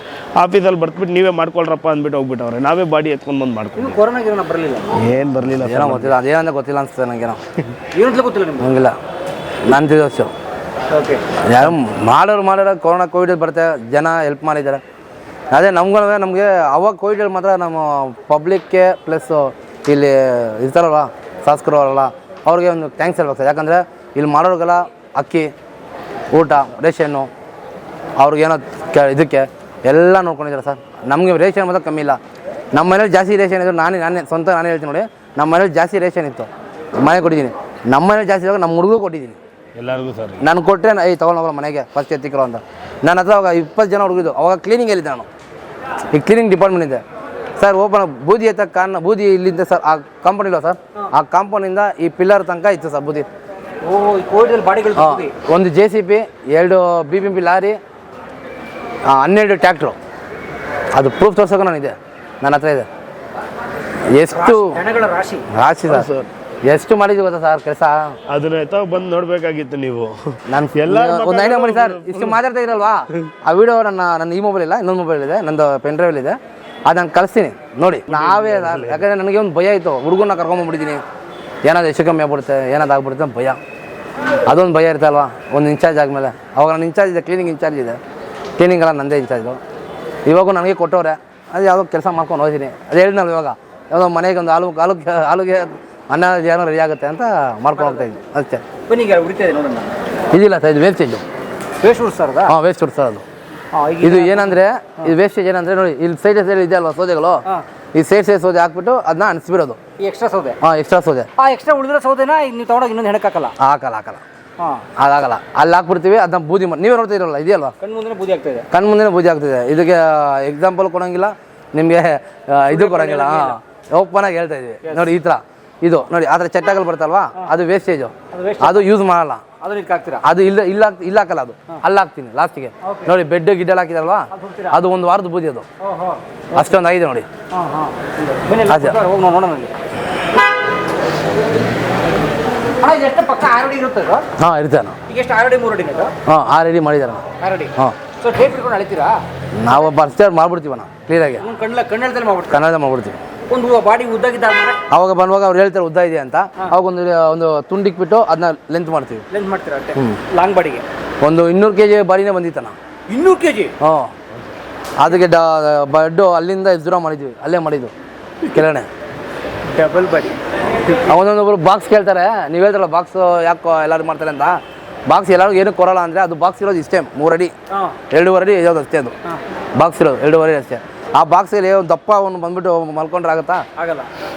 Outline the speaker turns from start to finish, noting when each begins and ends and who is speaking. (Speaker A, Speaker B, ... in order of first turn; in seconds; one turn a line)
Speaker A: 0.4-4.0
Speaker B: 3.8-4.9
Speaker A: 5.0-6.2
Speaker C: 5.6-7.4
Speaker B: 7.9-8.7
Speaker C: 8.6-9.0
Speaker C: 9.7-10.3
Speaker B: 10.9-11.2
Speaker C: 11.5-14.8
Speaker C: 15.5-25.5
Speaker C: 26.3-27.3
Speaker C: 28.2-32.2
Speaker C: 32.7-36.5
Speaker C: 37.0-39.4
Speaker A: 39.8-40.4
Speaker C: 40.4-45.3
Speaker C: 46.1-47.0
Speaker C: 47.6-53.3
Speaker B: 53.8-55.3
Speaker C: 55.0-57.8
Speaker C: 59.1-60.0
Speaker C: 60.9-62.9
Speaker C: 64.1-64.8
Speaker B: 64.3-65.5
Speaker C: 65.5-66.1
Speaker A: 65.9-66.3
Speaker C: 66.6-68.2
Speaker A: 68.3-72.4
Speaker C: 70.5-81.0
Speaker A: 78.1-79.1
Speaker C: 81.7-83.6
Speaker C: 84.5-88.0
Speaker C: 88.6-89.6
Speaker C: 90.3-98.6
Speaker B: 97.8-98.1
Speaker B: 98.9-99.9
Speaker C: 100.3-101.2
Speaker B: 101.8-102.5
Speaker C: 102.5-103.2
Speaker B: 103.7-105.1
Speaker C: 104.0-107.4
Speaker C: 107.9-109.8
Speaker B: 110.0-110.6
Speaker C: 110.6-111.3
Speaker B: 111.4-113.5
Speaker C: 113.6-114.2
Speaker B: 114.6-114.8
Speaker C: 115.0-117.7
Speaker B: 117.8-118.7
Speaker C: 118.7-129.4
Speaker B: 122.7-123.6
Speaker B: 124.8-125.1
Speaker B: 128.3-128.9
Speaker B: 129.6-130.2
Speaker C: 130.2-135.7
Speaker B: 132.8-133.1
Speaker B: 134.3-134.8
Speaker B: 135.8-136.8
Speaker C: 136.5-137.3
Speaker B: 137.5-139.7
Speaker C: 138.7-139.0
Speaker B: 142.8-144.3
Speaker C: 144.4-145.0
Speaker B: 145.1-146.1
Speaker C: 146.3-147.2
Speaker B: 147.4-149.2
Speaker C: 149.6-151.4
Speaker B: 151.4-152.6
Speaker C: 152.5-153.2
Speaker B: 153.5-154.8
Speaker C: 154.9-159.2
Speaker B: 159.3-160.8
Speaker C: 159.9-160.2
Speaker C: 161.2-162.8
Speaker B: 163.1-163.7
Speaker C: 163.8-164.1
Speaker C: 165.0-167.9
Speaker C: 168.5-168.9
Speaker B: 169.7-170.4
Speaker C: 171.0-177.5
Speaker B: 177.7-178.0
Speaker C: 178.1-179.1
Speaker C: 179.8-183.6
Speaker B: 183.8-184.1